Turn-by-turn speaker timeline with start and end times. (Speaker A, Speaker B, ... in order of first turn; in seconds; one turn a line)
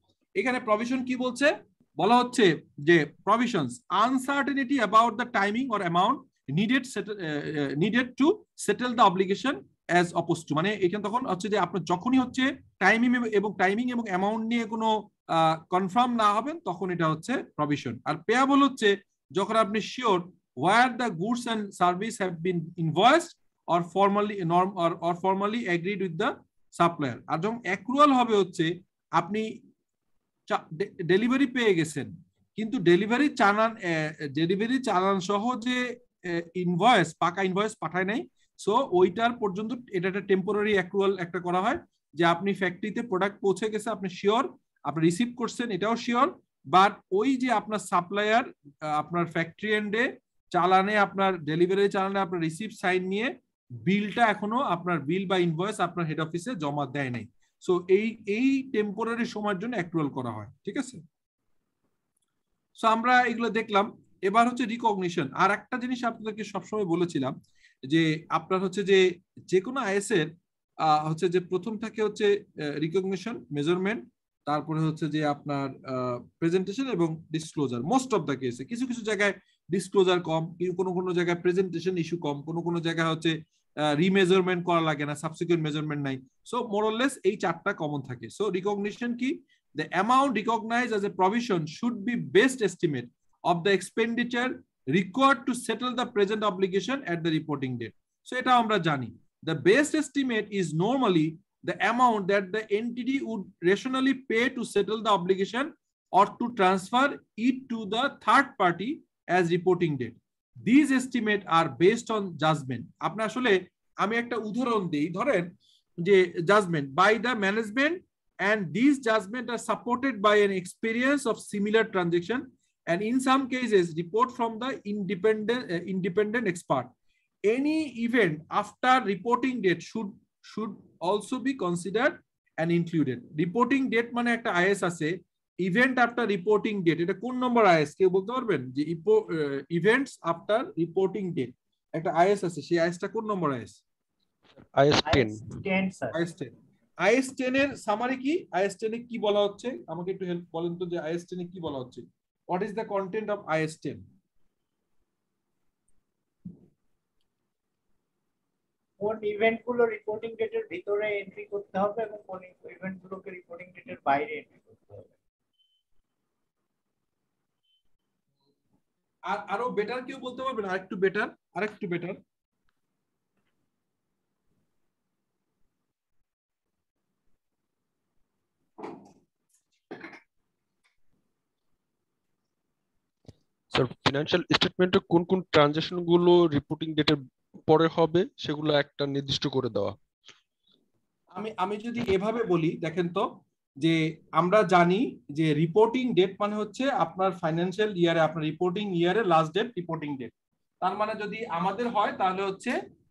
Speaker A: 0.4-29.4
Speaker A: 30.5-53.3
Speaker A: 53.8-61.0
Speaker A: 62.8-67.3
Speaker A: 67.9-70.3
Speaker A: 70.8-83.3
Speaker A: 83.8-115.5
Speaker A: 116.0-126.9
Speaker A: 127.5-143.8
Speaker B: 144.7-145.5
Speaker C: 145.0-146.2
Speaker A: 146.1-146.5
Speaker A: 147.0-154.0
Speaker C: 159.0-165.1
Speaker A: 169.3-172.2
Speaker B: 183.7-189.9
Speaker A: 191.3-193.2
Speaker A: 193.8-200.3
Speaker A: 200.8-202.8